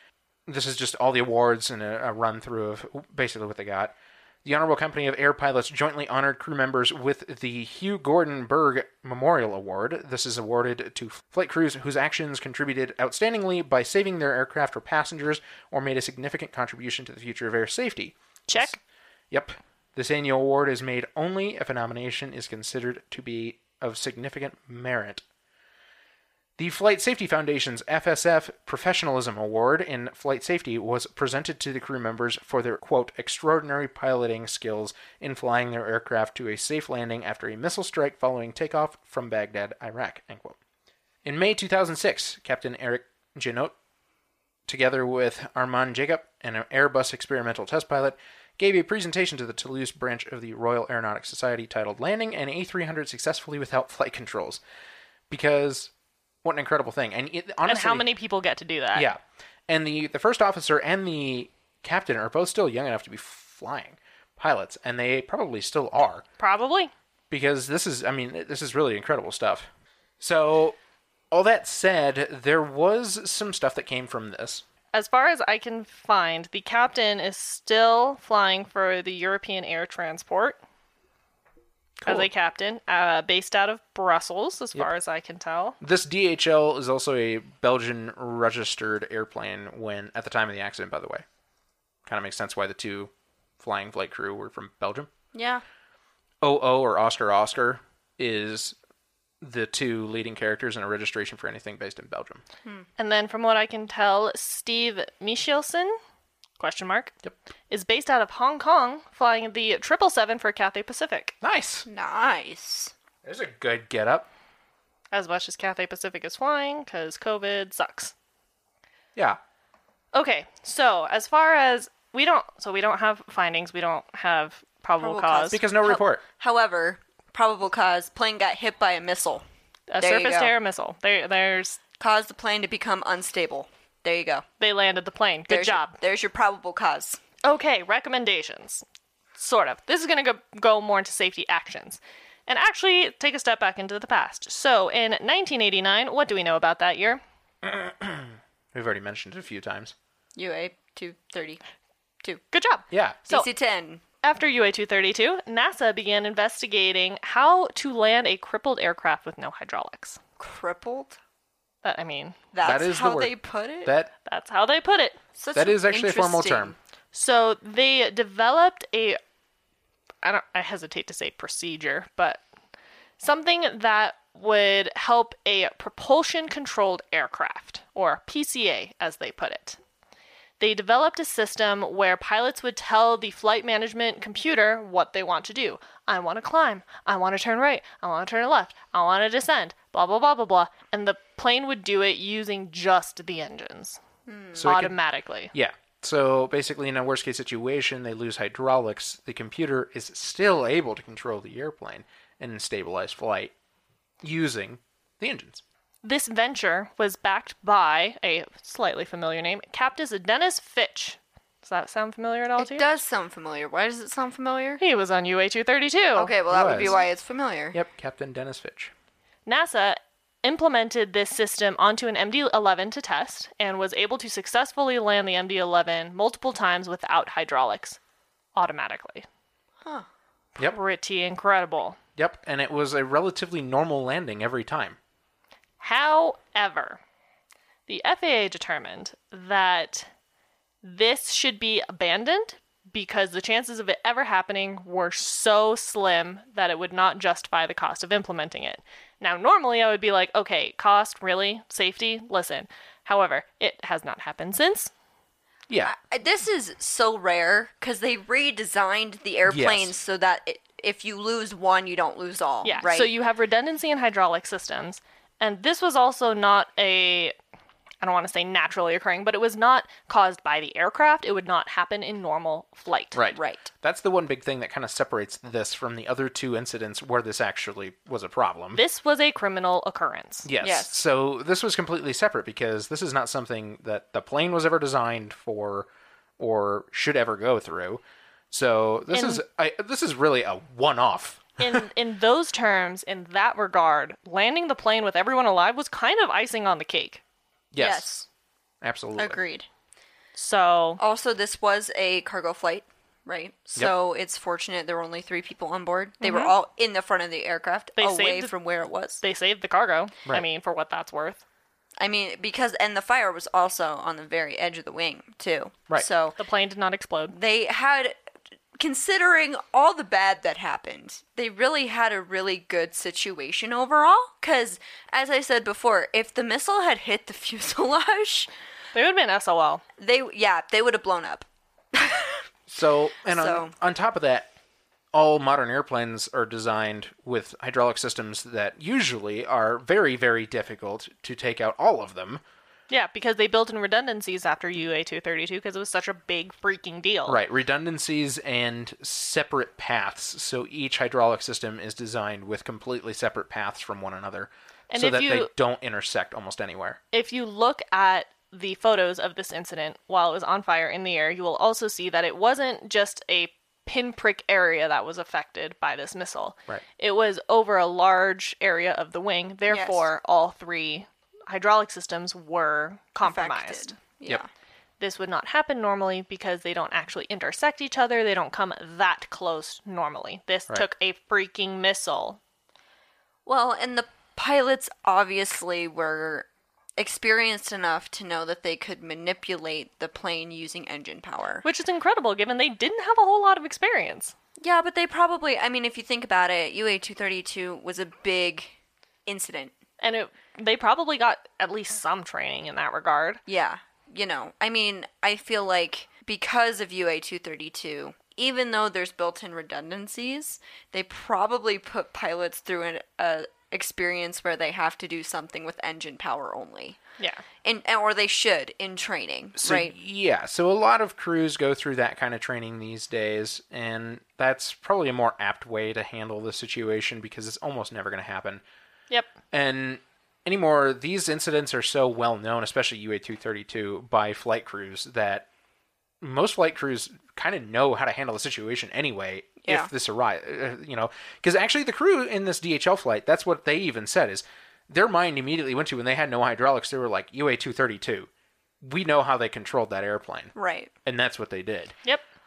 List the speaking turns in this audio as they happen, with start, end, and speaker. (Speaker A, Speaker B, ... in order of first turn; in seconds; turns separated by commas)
Speaker A: 0.5-18.8, Speaker B: 18.5-18.8, Speaker A: 19.3-25.2, Speaker A: 26.6-40.6, Speaker A: 41.2-43.8, Speaker A: 44.7-54.6, Speaker A: 55.3-55.9, Speaker A: 56.4-58.1, Speaker B: 57.7-59.1, Speaker A: 59.0-66.2, Speaker B: 66.4-66.9, Speaker A: 67.3-69.7, Speaker A: 70.2-70.8, Speaker A: 71.3-74.6, Speaker B: 74.9-80.6, Speaker A: 82.0-82.3, Speaker B: 82.0-85.8, Speaker A: 85.8-91.2, Speaker A: 92.1-95.1, Speaker C: 95.3-95.6, Speaker A: 96.4-98.8, Speaker A: 99.4-102.4, Speaker B: 103.0-106.0, Speaker B: 106.6-107.2, Speaker B: 107.7-111.3, Speaker A: 111.4-111.9, Speaker C: 111.9-112.9, Speaker A: 113.2-114.3, Speaker B: 115.1-118.1, Speaker B: 120.1-125.6, Speaker C: 125.0-129.4, Speaker A: 125.5-126.2, Speaker B: 129.9-131.8, Speaker C: 130.0-130.5, Speaker C: 132.0-134.4, Speaker B: 134.6-136.0, Speaker C: 135.5-137.2, Speaker B: 137.4-138.8, Speaker B: 139.4-147.2, Speaker A: 147.6-149.9, Speaker C: 150.4-151.6, Speaker B: 152.5-153.5, Speaker A: 152.9-153.2, Speaker C: 153.3-154.0, Speaker B: 154.2-160.2, Speaker C: 160.4-161.2, Speaker B: 161.8-162.4, Speaker C: 162.5-163.9, Speaker A: 162.6-163.3, Speaker A: 163.9-164.1, Speaker B: 164.3-165.2, Speaker C: 165.4-166.8, Speaker A: 165.5-166.8, Speaker B: 167.1-169.2, Speaker B: 170.2-172.4, Speaker B: 173.2-179.8, Speaker B: 180.6-194.0, Speaker C: 194.3-194.7, Speaker A: 194.6-195.0, Speaker B: 194.6-195.5, Speaker A: 195.5-203.5, Speaker A: 204.2-205.6, Speaker B: 206.0-212.9, Speaker C: 212.6-214.8, Speaker B: 214.8-217.0, Speaker C: 216.2-217.8, Speaker A: 216.5-217.0, Speaker A: 217.7-218.9, Speaker B: 219.5-228.0, Speaker B: 228.6-229.3, Speaker B: 230.6-232.0, Speaker A: 232.2-235.0, Speaker B: 235.8-237.0, Speaker B: 237.9-240.1, Speaker B: 240.8-254.9, Speaker C: 255.8-263.1, Speaker A: 259.5-259.9, Speaker B: 262.6-267.4, Speaker B: 268.0-273.2, Speaker A: 273.1-278.8, Speaker C: 273.3-273.7, Speaker B: 278.8-280.5, Speaker A: 280.4-285.9, Speaker C: 280.6-280.9, Speaker A: 286.4-291.9, Speaker B: 289.1-289.4, Speaker B: 291.6-297.2, Speaker A: 297.7-298.1, Speaker C: 297.8-298.3, Speaker A: 298.8-299.4, Speaker C: 299.2-299.7, Speaker B: 300.4-301.0, Speaker C: 301.0-309.2, Speaker B: 306.2-306.5, Speaker B: 308.0-308.5, Speaker B: 309.2-311.4, Speaker C: 312.0-316.4, Speaker B: 316.4-317.4, Speaker C: 317.3-318.2, Speaker C: 318.8-328.5, Speaker B: 328.9-329.8, Speaker C: 330.0-332.4, Speaker A: 332.7-334.5, Speaker C: 333.3-333.7, Speaker A: 335.1-342.4, Speaker B: 342.9-347.4, Speaker A: 347.3-357.0, Speaker B: 354.9-355.5, Speaker B: 357.1-374.0, Speaker C: 369.7-370.1, Speaker C: 373.2-374.5, Speaker B: 375.0-382.4, Speaker C: 383.5-391.6, Speaker B: 391.6-394.3, Speaker C: 394.6-398.7, Speaker C: 399.3-399.8, Speaker B: 400.0-403.4, Speaker C: 403.5-417.0, Speaker C: 417.6-419.9, Speaker A: 419.6-428.6, Speaker A: 429.5-435.5, Speaker A: 436.2-448.3, Speaker C: 439.6-439.9, Speaker A: 448.8-450.5, Speaker C: 450.6-450.9, Speaker A: 451.1-451.9